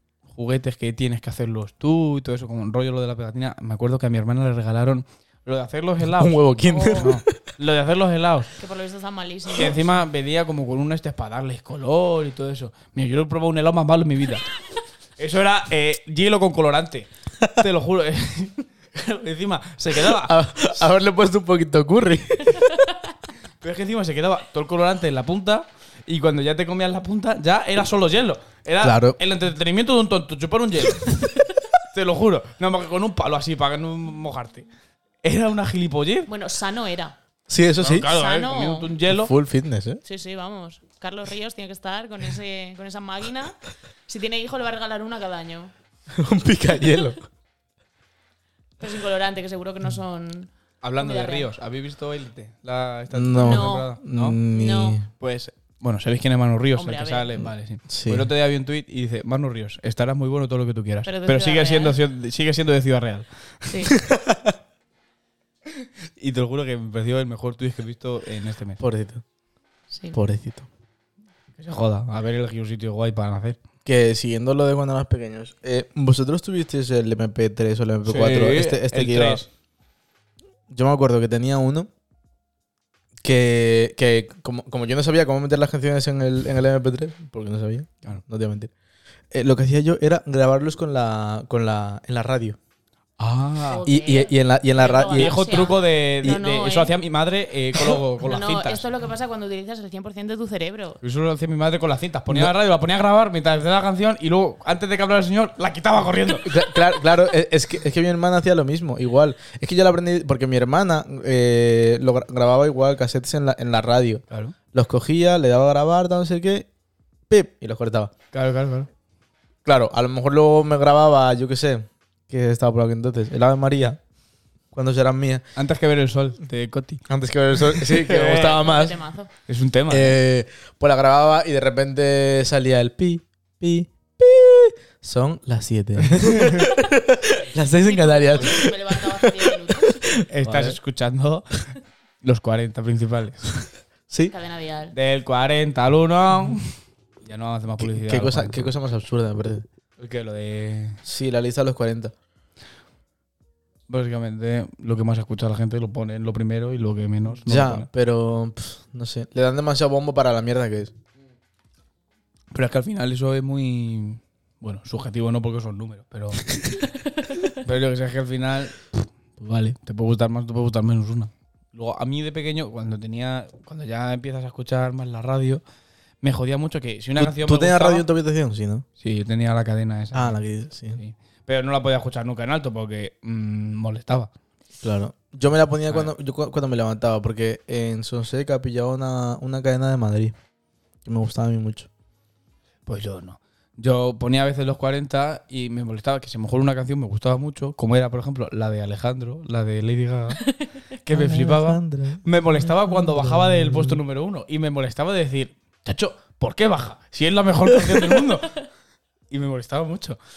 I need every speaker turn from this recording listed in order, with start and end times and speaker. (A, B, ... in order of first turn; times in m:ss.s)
0:00.3-0:06.4 A
0:06.2-0:07.2 B
0:06.6-0:07.1 C
0:07.0-0:08.5 A
0:08.6-0:09.8 C
0:09.5-0:14.5 A
0:15.2-0:20.4 A
0:20.1-0:22.7 B
0:23.6-0:34.7 A
0:28.8-0:29.2 B
0:35.2-0:36.3 A
0:36.3-0:37.2 C
0:37.5-0:38.1 B
0:37.8-0:39.3 A
0:38.1-0:38.9 C
0:39.1-0:40.0 B
0:40.0-0:45.7 C
0:46.1-0:47.2 B
0:48.8-0:51.5 C
0:50.8-0:54.4 A
0:53.1-0:55.1 B
0:53.4-0:53.9 C
0:54.5-0:55.0 C
0:55.2-1:03.9 A
0:56.7-0:57.3 C
0:57.9-0:58.3 B
1:01.0-1:02.0 C
1:03.7-1:03.9 C
1:03.9-1:04.5 B
1:06.2-1:08.8 A
1:08.8-1:09.2 B
1:09.9-1:10.2 C
1:10.1-1:10.7 B
1:11.6-1:13.6 A
1:13.8-1:19.4 B
1:18.0-1:19.4 A
1:20.7-1:21.9 B
1:23.2-1:28.7 B
1:29.3-1:32.6 B
1:33.2-1:33.8 A
1:33.7-1:36.9 C
1:33.8-1:35.4 B
1:35.1-1:38.9 A
1:38.2-1:41.0 C
1:41.0-1:46.6 A
1:46.4-1:56.7 B
1:54.3-1:54.6 A
1:57.3-1:58.1 B
1:58.3-1:58.9 A
1:59.6-2:04.0 B
2:04.7-2:05.4 B
2:05.6-2:07.0 A
2:07.1-2:08.9 B
2:07.6-2:08.8 A
2:08.5-2:09.3 C
2:09.5-2:10.2 A
2:09.9-2:20.8 B
2:16.2-2:16.6 A
2:17.6-2:20.0 C
2:20.3-2:21.7 A
2:22.2-2:23.6 A
2:24.3-2:24.9 C
2:24.9-2:28.7 A
2:27.8-2:29.6 B
2:30.0-2:31.0 A
2:31.0-2:32.1 B
2:33.9-2:37.9 A
2:37.4-2:40.9 B
2:42.5-2:46.8 A
2:47.5-2:55.6 A
2:56.2-2:58.0 A
2:57.2-2:58.8 B
2:59.0-3:04.3 A
3:00.1-3:01.0 B
3:04.8-3:10.3 B
3:11.0-3:11.9 B
3:12.8-3:28.6 A
3:21.1-3:24.0 B
3:27.7-3:28.1 B
3:29.3-3:30.2 A